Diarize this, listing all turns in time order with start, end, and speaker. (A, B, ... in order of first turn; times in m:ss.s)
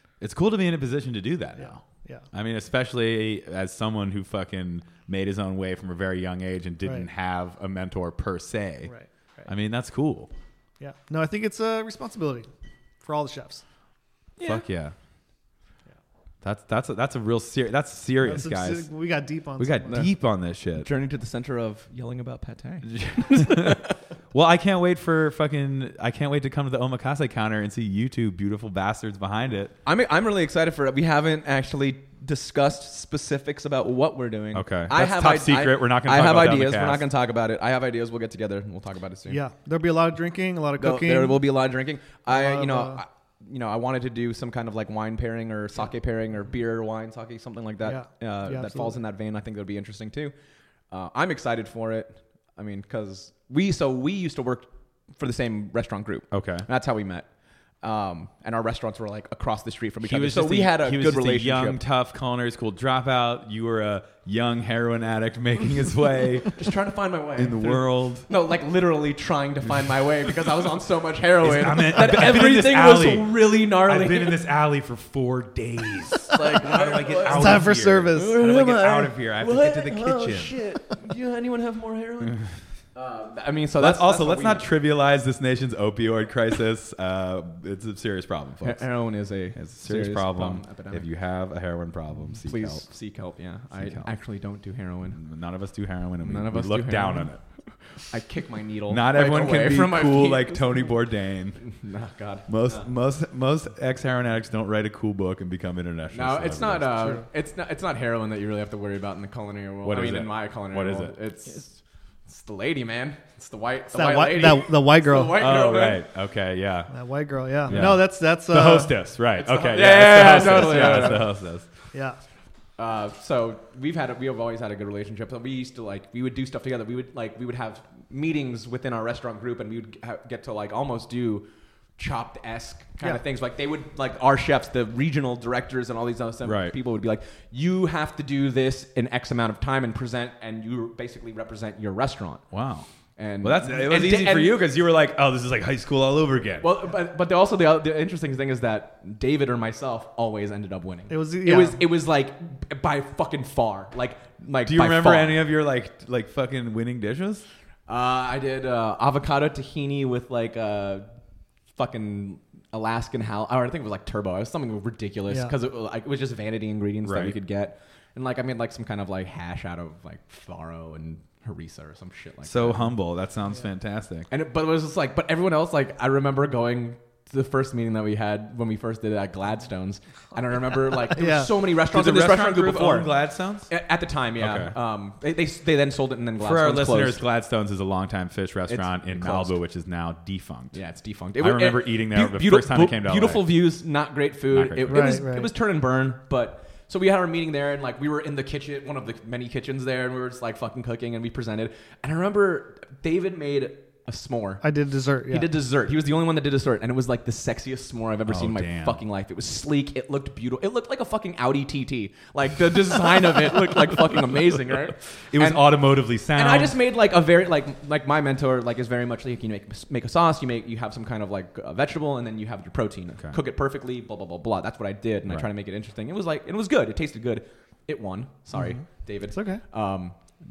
0:00.2-0:01.8 A
0:01.6-0:02.3 B
0:02.3-0:08.9 A
0:06.8-0:07.1 B
0:08.9-0:09.5 B
0:09.5-0:10.3 A
0:10.8-0:12.5 B
0:13.0-0:13.6 B
0:14.4-0:14.6 C
0:14.4-0:15.0 A
0:16.4-0:18.9 A
0:18.2-0:20.0 B
0:19.6-0:20.9 A
0:19.9-0:20.2 C
0:20.8-0:23.8 C
0:22.9-0:29.7 A
0:29.9-0:39.4 C
0:34.5-0:37.0 A
0:39.3-0:41.4 B
0:40.8-0:50.3 C
0:42.3-0:43.0 B
0:47.8-0:49.0 B
0:50.9-0:57.3 C
0:56.3-0:56.7 A
0:57.8-1:01.8 C
1:00.0-1:06.6 A
1:06.5-1:14.4 C
1:07.4-1:08.3 A
1:11.4-1:20.5 A
1:16.3-1:24.7 C
1:17.3-1:18.4 B
1:23.8-1:28.9 A
1:28.6-1:31.1 C
1:29.6-1:32.8 A
1:32.3-1:35.2 C
1:33.8-1:34.1 A
1:35.1-1:37.4 A
1:36.2-1:37.3 C
1:37.9-1:40.9 C
1:38.9-1:41.6 A
1:41.6-1:42.9 C
1:42.5-1:47.2 A
1:46.1-1:56.0 C
1:49.8-1:51.1 A
1:53.9-1:55.4 B
1:55.4-1:56.9 A
1:56.9-1:59.0 B
1:57.7-2:01.7 A
1:59.4-2:01.3 C
2:00.7-2:01.2 B
2:01.9-2:02.2 B
2:02.8-2:11.5 C
2:12.0-2:22.4 C
2:16.4-2:16.8 A
2:22.5-2:22.9 A
2:23.2-2:24.6 C
2:23.4-2:26.7 A
2:26.6-2:35.4 C
2:31.1-2:31.8 B
2:34.6-2:37.5 A
2:37.9-2:41.1 C
2:41.8-2:53.0 C
2:47.0-2:47.3 A
2:52.4-2:54.3 A
2:54.3-3:07.2 C
3:01.1-3:01.5 B
3:01.8-3:03.7 A
3:04.4-3:04.7 A
3:06.4-3:10.8 A
3:08.7-3:09.6 C
3:10.7-3:24.6 C
3:11.4-3:13.5 A
3:14.5-3:15.0 A
3:14.9-3:15.5 B
3:24.6-3:25.5 B
3:25.3-3:35.8 C
3:28.3-3:29.0 A
3:35.3-3:36.8 A
3:36.3-3:50.2 C
3:49.3-3:49.6 B